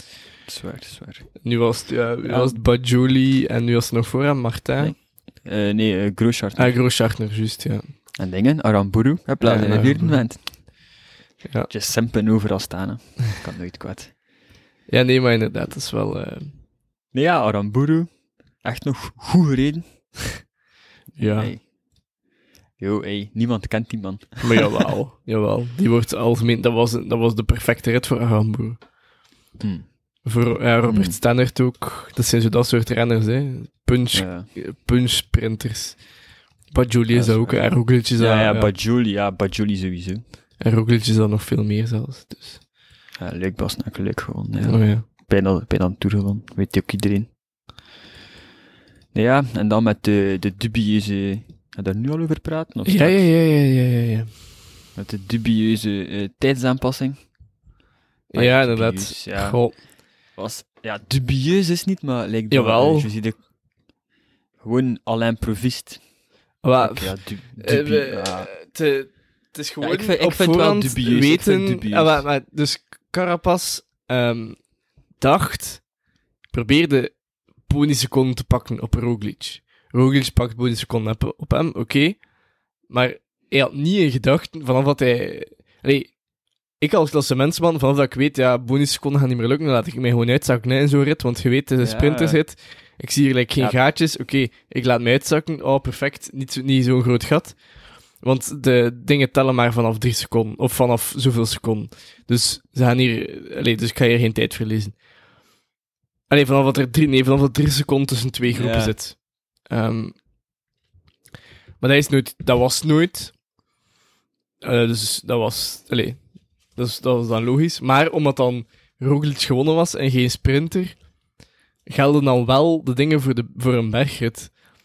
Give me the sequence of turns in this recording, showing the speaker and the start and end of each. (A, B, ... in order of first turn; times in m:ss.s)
0:00.5-0:01.3 A
0:01.4-0:04.9 B
0:02.2-0:02.6 A
0:04.8-0:06.8 A
0:06.6-0:07.9 B
0:08.2-0:10.4 A
0:09.4-0:10.2 B
0:11.7-0:14.1 A
0:14.9-0:16.5 B
0:17.1-0:18.1 A
0:18.6-0:19.8 A
0:21.2-0:21.6 A
0:21.2-0:21.5 B
0:22.8-0:24.8 A
0:24.4-0:28.8 B
0:29.6-0:29.9 A
0:30.2-0:36.0 B
0:30.9-0:31.2 A
0:34.1-0:34.5 A
0:36.7-0:38.7 B
0:37.1-0:37.6 A
0:38.2-0:40.2 A
0:40.6-0:42.6 B
0:43.2-0:47.3 A
0:44.6-0:45.0 B
0:49.1-0:53.2 A
0:52.9-0:54.3 B
0:55.0-0:57.2 A
0:58.3-0:59.8 B
0:58.4-0:59.6 A
1:00.4-1:03.4 A
1:02.5-1:03.1 B
1:04.6-1:06.0 A
1:06.6-1:14.6 B
1:06.8-1:08.5 A
1:09.8-1:12.2 A
1:15.2-1:15.8 B
1:16.5-1:17.1 B
1:17.7-1:22.2 B
1:22.9-1:26.1 B
1:26.8-1:37.6 B
1:31.8-1:32.4 A
1:38.2-1:45.0 B
1:46.3-1:49.2 B
1:48.5-1:49.0 A
1:49.7-1:50.2 B
1:51.8-1:53.3 B
1:54.6-1:56.2 B
1:56.8-2:01.0 B
2:01.9-2:04.5 B